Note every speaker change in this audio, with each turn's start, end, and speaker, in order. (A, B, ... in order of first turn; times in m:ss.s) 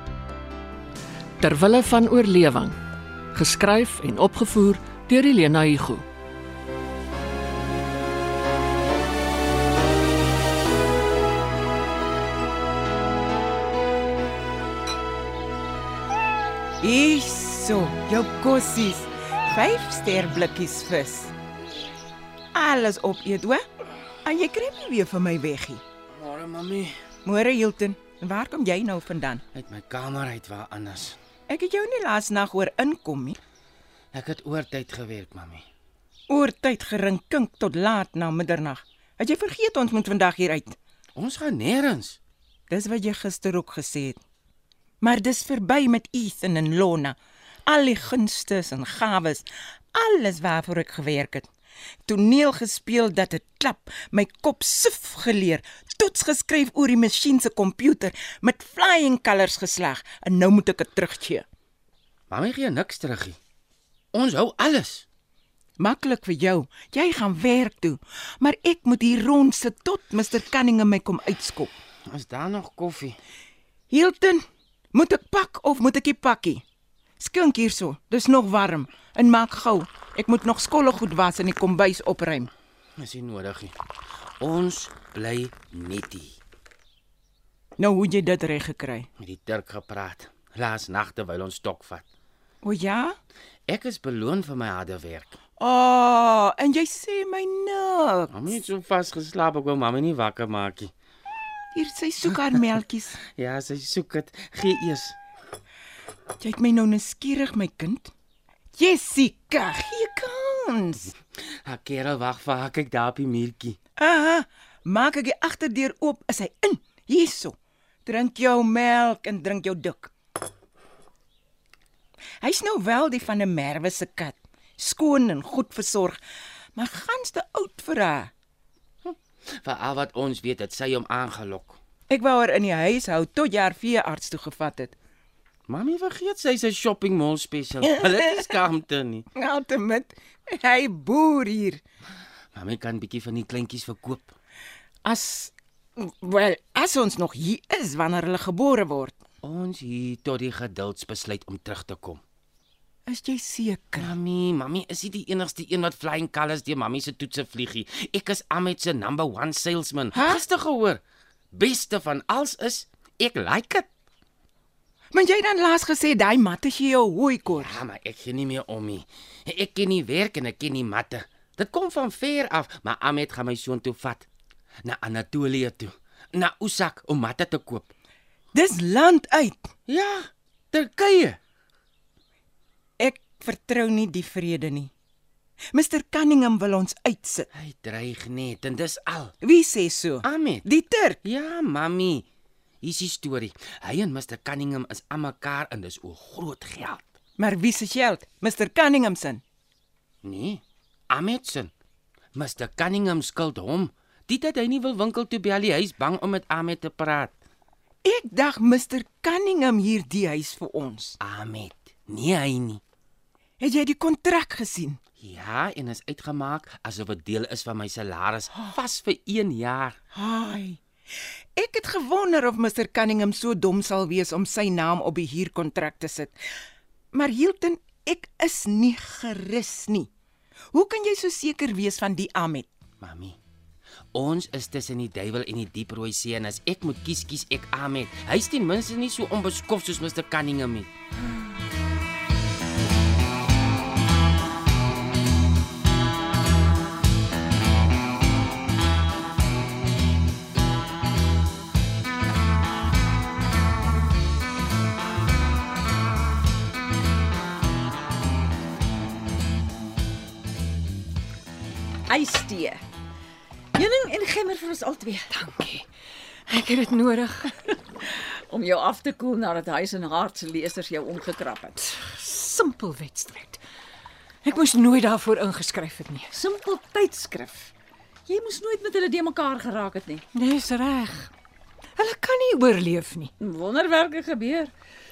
0:01.4-0:02.7 A
0:03.3-0:06.0 A
0:16.8-0:21.3 B
0:22.5-0:23.6 B
0:24.2-0:25.8 B
0:26.1-0:26.9 C
0:27.2-0:29.4 B
0:29.5-0:31.2 C
0:31.5-0:33.4 B
0:34.1-0:35.6 C
0:36.3-0:40.8 B
0:41.2-0:42.2 C
0:42.7-0:44.2 B
0:45.0-0:47.2 B
0:47.7-0:51.5 B
0:52.0-1:01.4 B
1:02.3-1:03.4 C
1:04.1-1:05.0 C
1:05.8-1:11.7 B
1:12.1-1:13.2 C
1:13.9-1:16.6 B
1:17.2-1:22.5 B
1:23.0-1:23.7 C
1:24.4-1:26.4 C
1:27.8-1:29.1 B
1:29.2-1:32.0 C
1:32.6-1:33.2 B
1:33.7-1:35.4 C
1:35.6-1:38.4 B
1:38.3-1:40.9 C
1:41.7-1:43.2 B
1:43.4-1:45.2 C
1:46.4-1:48.1 B
1:48.8-1:51.1 B
1:51.6-1:53.8 C
1:54.0-2:00.1 B
2:02.4-2:06.2 B
2:06.8-2:08.3 B
2:09.0-2:11.8 C
2:12.1-2:15.0 B
2:15.7-2:19.2 C
2:17.8-2:18.5 B
2:19.3-2:21.8 B
2:22.5-2:24.3 C
2:25.0-2:29.2 B
2:29.4-2:32.2 C
2:33.1-2:34.1 B
2:34.0-2:41.0 C
2:40.1-2:40.4 B
2:41.5-2:43.9 C
2:45.1-2:47.8 B
2:47.5-2:54.2 C
2:54.8-2:57.9 C
2:58.5-2:59.7 B
2:59.9-3:01.4 C
3:03.0-3:04.9 B
3:05.7-3:07.5 B
3:07.5-3:09.3 C
3:09.4-3:11.2 B
3:10.2-3:10.6 C
3:11.2-3:12.2 C
3:12.8-3:17.0 C
3:17.4-3:19.4 B
3:20.2-3:21.7 C
3:22.3-3:27.3 C
3:28.0-3:31.2 B
3:31.2-3:32.8 C
3:33.6-3:35.0 B
3:35.2-3:40.0 C
3:40.1-3:40.8 B
3:41.6-3:46.4 B
3:47.1-3:50.1 B
3:50.7-3:52.7 B
3:53.0-3:53.4 C
3:54.1-4:00.9 C
4:22.1-4:22.8 D
4:23.7-4:25.3 D
4:25.3-4:25.9 E
4:26.5-4:27.6 E
4:28.0-4:31.8 D
4:31.9-4:33.6 E
4:34.4-4:36.3 E
4:36.3-4:37.7 D
4:38.3-4:40.2 D
4:40.3-4:41.3 E
4:42.0-4:43.3 E
4:43.4-4:44.7 D